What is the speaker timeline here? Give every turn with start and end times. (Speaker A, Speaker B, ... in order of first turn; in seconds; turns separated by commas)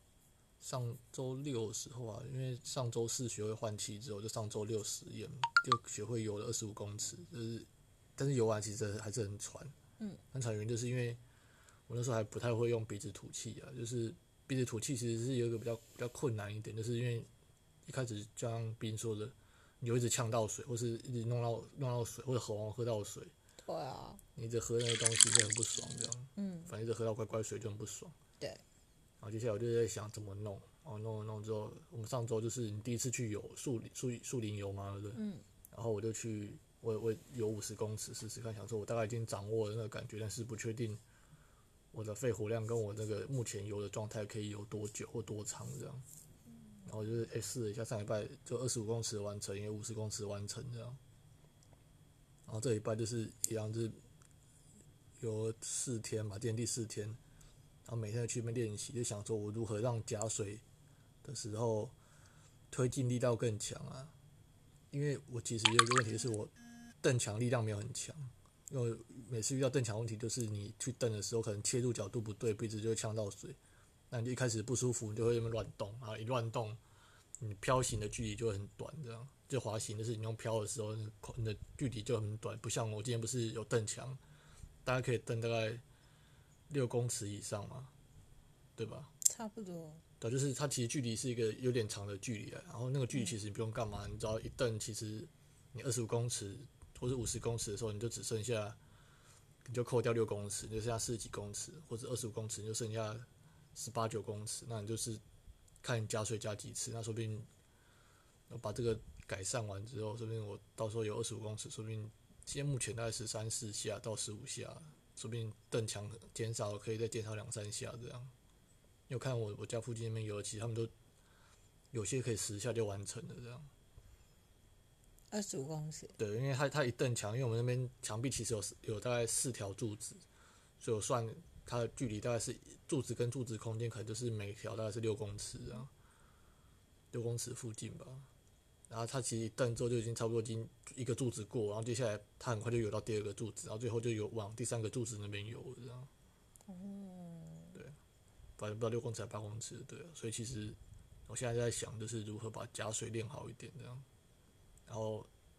Speaker A: 0.6-9.7, Speaker A: 10.3-11.2, Speaker A: 11.9-17.3, Speaker A: 17.9-23.3, Speaker B: 23.6-24.2, Speaker A: 24.3-28.1, Speaker B: 26.4-26.7, Speaker A: 29.2-41.0, Speaker B: 35.1-35.4, Speaker A: 41.9-46.0, Speaker A: 46.8-51.0, Speaker A: 52.5-54.0, Speaker A: 55.2-57.2, Speaker A: 57.8-60.6, Speaker A: 61.2-61.9, Speaker A: 62.7-64.1, Speaker A: 64.9-73.6, Speaker A: 74.1-76.8, Speaker A: 77.4-84.2, Speaker A: 84.8-85.8, Speaker A: 86.7-87.9, Speaker A: 88.8-89.1, Speaker B: 89.2-90.0, Speaker A: 90.2-98.8, Speaker A: 99.6-105.2, Speaker A: 105.8-107.5, Speaker A: 108.5-118.3, Speaker A: 119.1-120.9, Speaker A: 121.9-123.7, Speaker B: 125.3-126.2, Speaker A: 126.2-130.2, Speaker A: 130.8-135.9, Speaker A: 137.1-138.3, Speaker A: 138.9-146.1, Speaker B: 146.7-147.8, Speaker A: 148.6-154.0, Speaker A: 154.9-155.3